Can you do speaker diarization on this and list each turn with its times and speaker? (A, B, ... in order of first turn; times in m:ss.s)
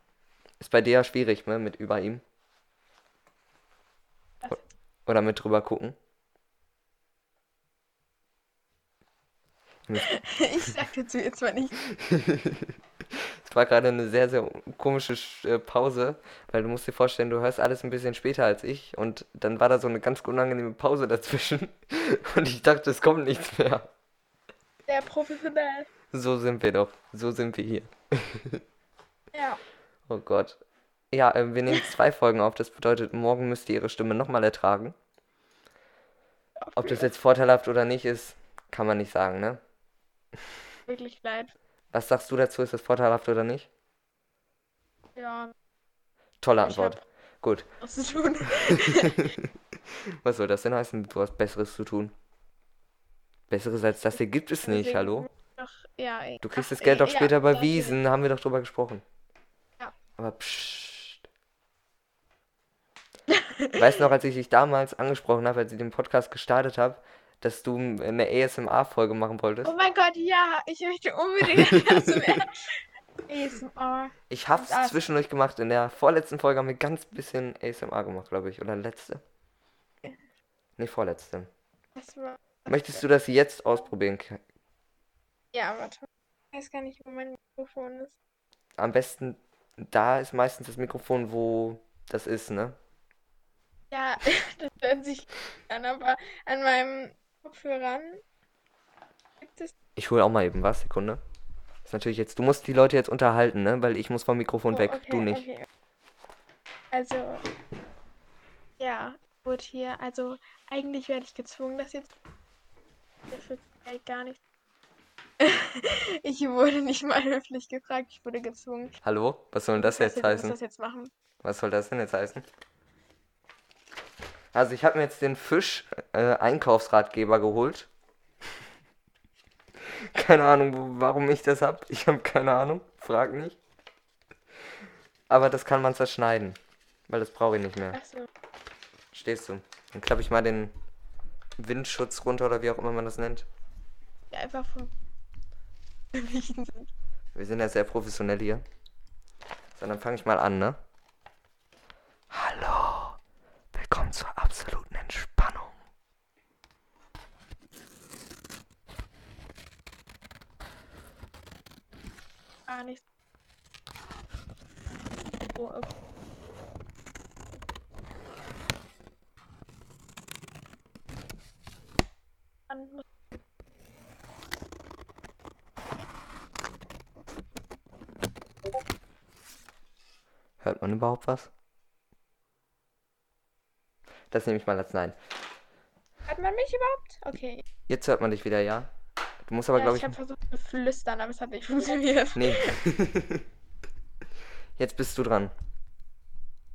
0:00.6-0:02.2 A
0:04.5-0:06.0 A
0:09.9-0:10.1 A
0:10.0-0:11.8 B
0:11.9-0:12.7 A
0:13.4-0:23.9 A
0:24.9-0:25.9 B
0:26.1-0:28.6 A
0:29.3-0:29.6 B
0:30.1-0:30.6 A
0:31.1-0:35.0 A
0:36.7-0:37.1 B
0:36.8-0:39.6 A
0:40.9-0:41.5 B
0:41.9-0:43.7 A
0:45.2-0:45.5 B
0:46.4-0:47.6 A
0:46.6-0:47.0 B
0:47.8-0:49.3 B
0:50.2-0:52.1 A
0:53.5-0:55.3 A
0:54.6-0:58.0 B
0:56.4-0:59.0 A
1:00.2-1:01.2 A
1:03.3-1:03.8 B
1:03.8-1:09.7 A
1:09.6-1:15.0 B
1:11.5-1:12.4 A
1:14.3-1:19.2 A
1:20.8-1:21.5 A
1:22.0-1:23.0 B
1:22.7-1:24.4 A
1:25.5-1:28.2 B
1:28.8-1:32.8 A
1:33.9-1:38.2 B
1:39.4-1:39.7 B
1:40.0-1:41.2 A
1:41.8-1:45.5 A
1:44.7-1:45.7 B
1:46.9-1:47.5 B
1:48.8-1:52.1 B
1:53.3-1:54.4 B
1:55.4-1:59.0 B
1:59.0-2:00.6 A
1:59.8-2:01.1 B
2:01.4-2:02.4 A
2:04.5-2:07.9 A
2:10.1-2:13.6 A
2:15.3-2:16.6 A
2:17.1-2:18.0 A
2:17.9-2:18.3 B
2:19.1-2:20.7 A
2:21.6-2:23.5 A
2:24.3-2:24.9 B
2:26.1-2:26.9 B
2:27.3-2:28.6 A
2:29.8-2:30.8 A
2:32.3-2:33.2 A
2:33.7-2:35.7 A
2:42.7-2:43.0 B
2:45.6-2:45.9 B
2:52.7-2:53.0 B
3:00.6-3:01.5 A
3:04.3-3:05.2 A
3:06.3-3:07.6 B
3:07.9-3:08.9 A
3:09.5-3:10.2 A
3:09.8-3:12.8 B
3:12.4-3:13.4 A
3:14.8-3:15.5 A